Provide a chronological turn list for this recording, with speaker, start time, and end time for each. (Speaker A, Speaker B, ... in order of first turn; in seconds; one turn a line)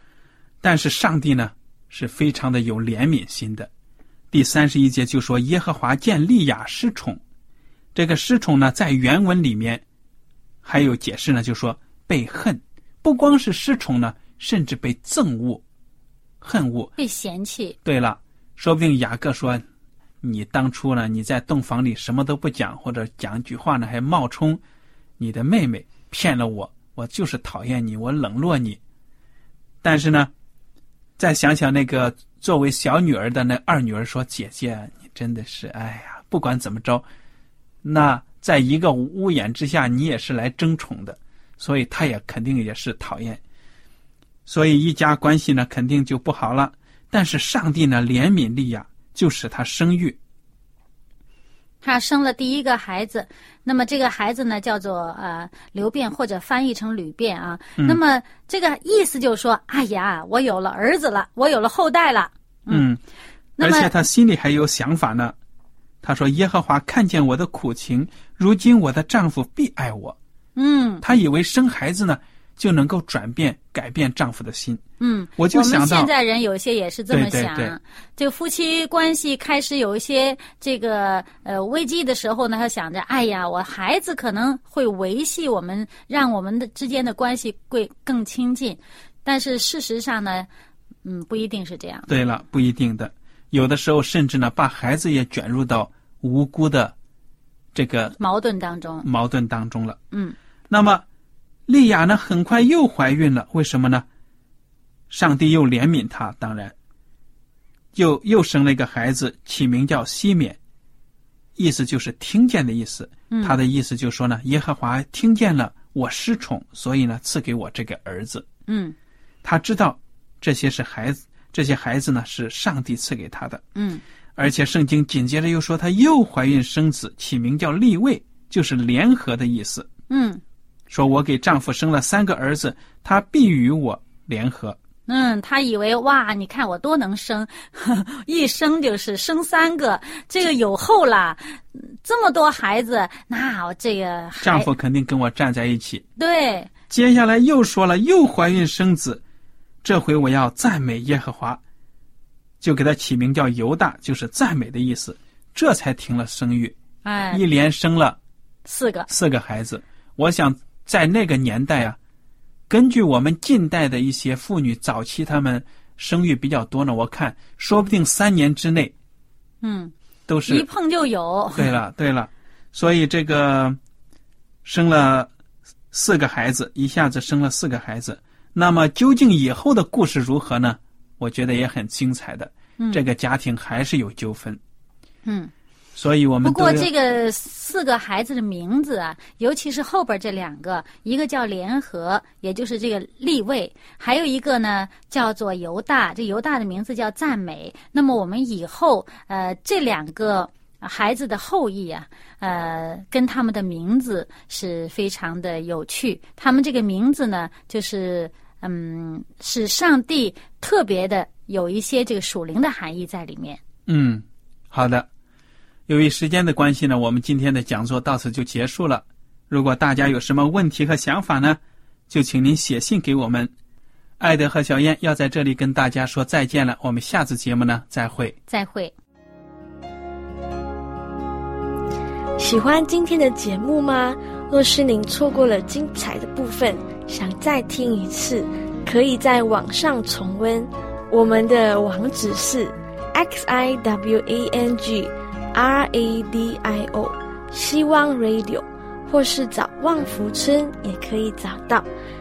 Speaker A: 0.6-3.7
Speaker A: 4.3-7.2
Speaker A: 7.9-9.8
Speaker A: 10.6-15.6
Speaker A: 16.4-16.9
Speaker B: 17.0-17.8
Speaker A: 17.8-19.6
Speaker A: 20.2-24.6
Speaker A: 25.2-28.8
Speaker A: 29.8-30.3
Speaker A: 31.2-37.0
Speaker A: 37.8-43.4
Speaker A: 44.5-50.2
Speaker B: 51.8-62.9
Speaker A: 62.7-63.0
Speaker B: 63.6-63.9
Speaker A: 63.6-65.3
Speaker A: 66.0-70.2
Speaker B: 70.5-71.0
Speaker A: 71.0-74.8
Speaker B: 75.0-90.5
Speaker A: 75.4-76.1
Speaker A: 77.1-77.8
Speaker B: 91.0-92.1
Speaker A: 92.1-96.9
Speaker A: 97.7-98.2
Speaker B: 98.2-99.1
Speaker A: 99.0-100.0
Speaker A: 100.7-101.0
Speaker A: 101.7-104.0
Speaker A: 105.1-106.7
Speaker A: 107.9-110.6
Speaker A: 111.6-118.5
Speaker B: 113.3-113.6
Speaker B: 118.7-118.9
Speaker A: 119.4-123.6
Speaker B: 123.8-124.0
Speaker A: 124.4-129.9
Speaker B: 130.1-130.4
Speaker A: 130.9-134.8
Speaker B: 135.1-144.7
Speaker A: 144.4-146.0
Speaker B: 146.2-146.7
Speaker A: 146.9-149.2
Speaker A: 149.8-151.6
Speaker A: 152.6-156.7
Speaker B: 157.0-157.4
Speaker A: 157.3-158.2
Speaker B: 158.7-159.1
Speaker A: 159.1-162.0
Speaker A: 162.7-168.9
Speaker B: 169.6-169.9
Speaker A: 170.3-170.7
Speaker B: 170.5-171.7
Speaker A: 171.5-173.8
Speaker A: 174.6-175.3
Speaker A: 175.9-184.6
Speaker B: 185.2-185.5
Speaker A: 185.9-186.9
Speaker B: 186.4-213.6
Speaker A: 213.9-215.1
Speaker A: 215.9-223.5
Speaker A: 224.2-228.4
Speaker B: 228.5-228.9
Speaker C: 232.4-251.8